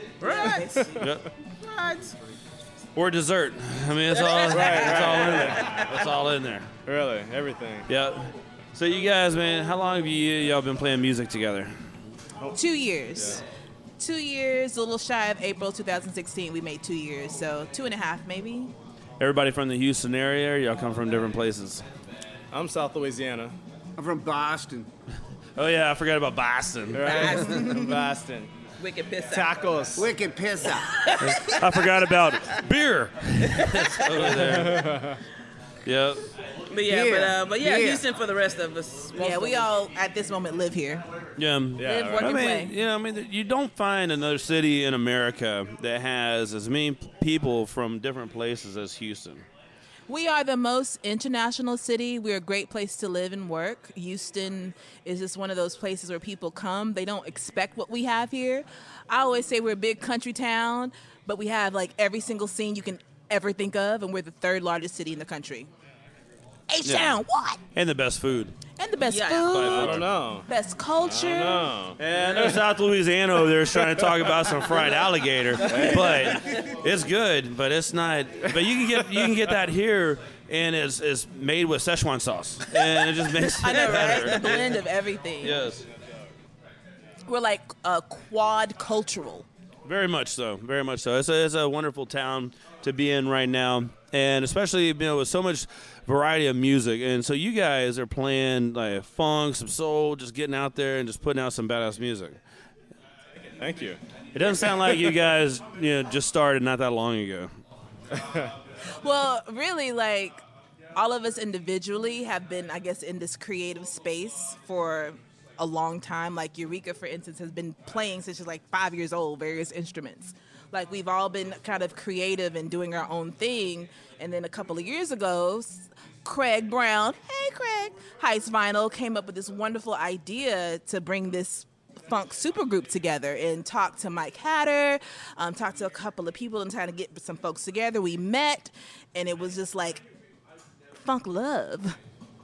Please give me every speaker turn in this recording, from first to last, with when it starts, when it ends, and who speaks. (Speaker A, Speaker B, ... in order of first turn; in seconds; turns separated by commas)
Speaker A: 0.2-1.0, Speaker B: 0.2-0.9, Speaker C: 0.9-1.3, Speaker A: 1.6-2.1, Speaker C: 3.0-6.7, Speaker A: 4.1-5.9, Speaker B: 4.2-4.5, Speaker D: 4.5-5.7, Speaker D: 6.9-7.9, Speaker C: 7.9-11.8, Speaker B: 12.6-13.4, Speaker D: 13.2-13.4, Speaker B: 14.0-18.7, Speaker C: 19.2-21.8, Speaker D: 22.5-23.5, Speaker E: 24.0-24.9, Speaker C: 25.6-27.4, Speaker D: 26.9-28.5, Speaker B: 27.1-27.9, Speaker A: 27.2-27.5, Speaker A: 28.8-29.6, Speaker D: 29.3-30.1, Speaker E: 29.9-30.9, Speaker A: 31.0-31.5, Speaker C: 31.2-34.9, Speaker A: 33.6-34.1, Speaker C: 35.9-36.2, Speaker A: 36.7-39.7, Speaker E: 36.9-38.0, Speaker B: 39.2-41.0, Speaker C: 41.4-49.5, Speaker D: 41.8-42.5, Speaker B: 41.8-42.7, Speaker B: 50.1-65.7, Speaker B: 66.7-67.6, Speaker C: 66.8-67.2, Speaker C: 67.7-68.5, Speaker B: 68.8-69.9, Speaker A: 69.1-69.9, Speaker C: 69.5-70.1, Speaker D: 69.7-70.5, Speaker B: 70.5-71.7, Speaker D: 71.0-72.6, Speaker C: 72.0-84.8, Speaker D: 75.7-76.4, Speaker A: 83.4-84.7, Speaker B: 83.6-85.6, Speaker C: 85.4-85.8, Speaker B: 87.3-89.5, Speaker C: 89.8-102.4, Speaker D: 103.6-104.0, Speaker C: 104.3-107.5, Speaker B: 109.0-110.4, Speaker B: 111.0-140.1, Speaker B: 141.0-142.0